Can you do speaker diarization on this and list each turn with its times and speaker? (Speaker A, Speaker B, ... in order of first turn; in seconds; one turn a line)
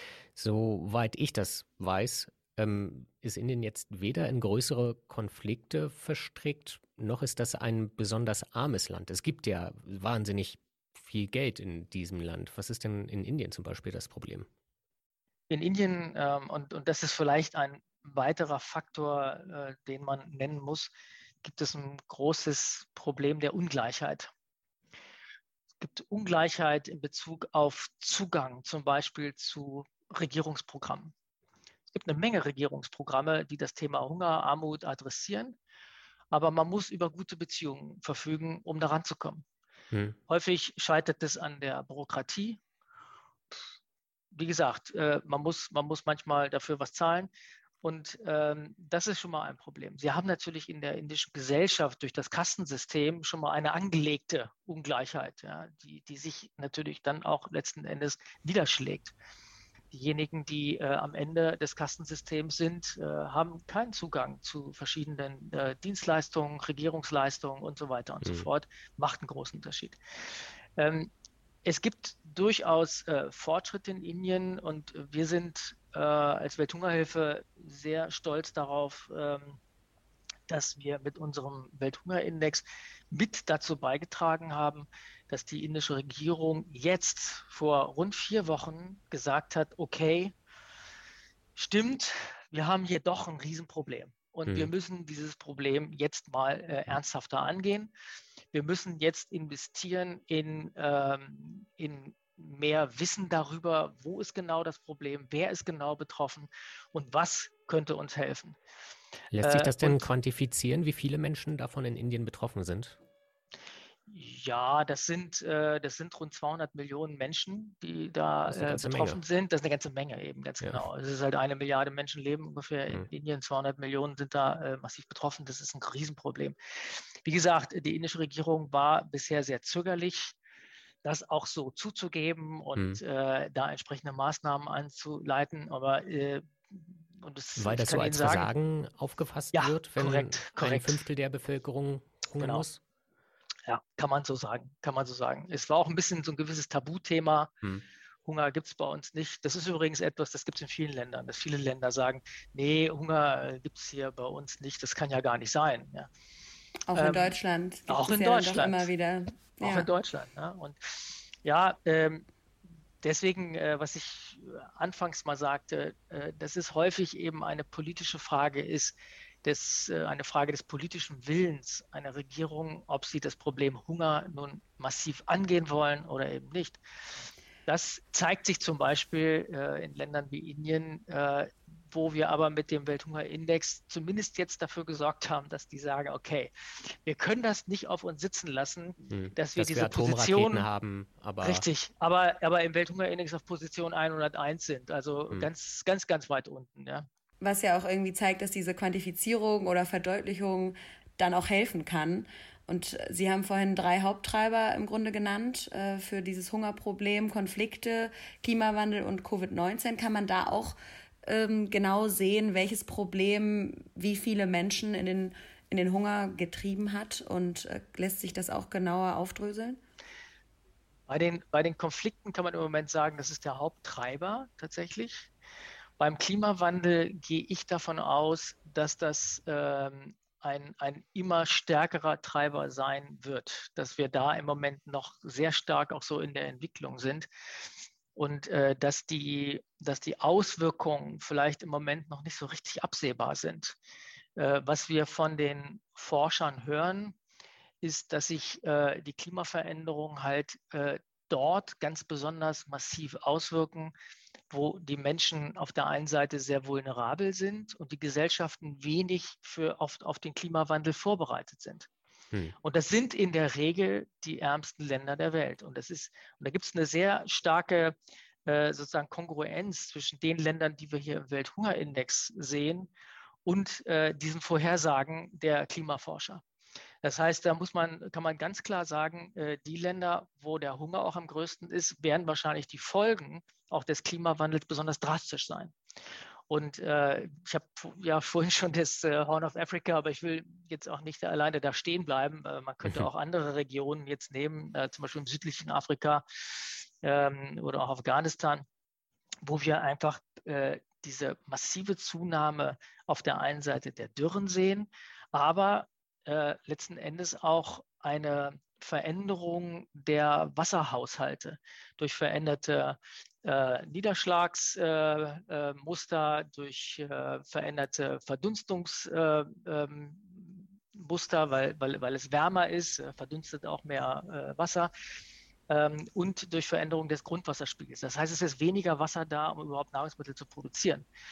Speaker A: 0.3-14.5
Speaker B: 15.5-20.9
Speaker B: 21.4-24.3
Speaker B: 25.8-31.1
Speaker B: 31.9-35.5
Speaker B: 36.3-39.4
Speaker A: 39.9-40.2
Speaker B: 40.3-42.6
Speaker B: 44.3-47.3
Speaker B: 47.8-59.1
Speaker B: 59.9-71.1
Speaker B: 71.6-79.6
Speaker B: 80.5-90.3
Speaker B: 91.5-97.9
Speaker B: 98.5-108.6
Speaker A: 109.3-113.0
Speaker B: 109.4-110.1
Speaker B: 114.1-130.3
Speaker A: 118.5-119.2
Speaker B: 131.0-138.5
Speaker A: 132.8-133.0
Speaker A: 137.6-142.8
Speaker B: 139.5-141.0
Speaker B: 143.7-147.5
Speaker B: 148.2-156.1
Speaker C: 156.9-159.9
Speaker B: 156.9-157.3
Speaker B: 157.9-158.9
Speaker B: 159.6-162.2
Speaker B: 163.0-176.8
Speaker B: 177.7-190.7
Speaker A: 189.1-191.7
Speaker B: 191.4-197.1
Speaker C: 197.4-219.8
Speaker B: 221.1-225.3
Speaker B: 226.0-237.3
Speaker B: 238.1-243.8
Speaker B: 244.4-247.2
Speaker B: 247.8-253.9
Speaker B: 254.5-261.9
Speaker B: 262.6-272.9
Speaker B: 273.4-276.4
Speaker B: 277.0-285.7
Speaker B: 286.5-298.6
Speaker B: 299.4-324.9
Speaker B: 325.7-331.1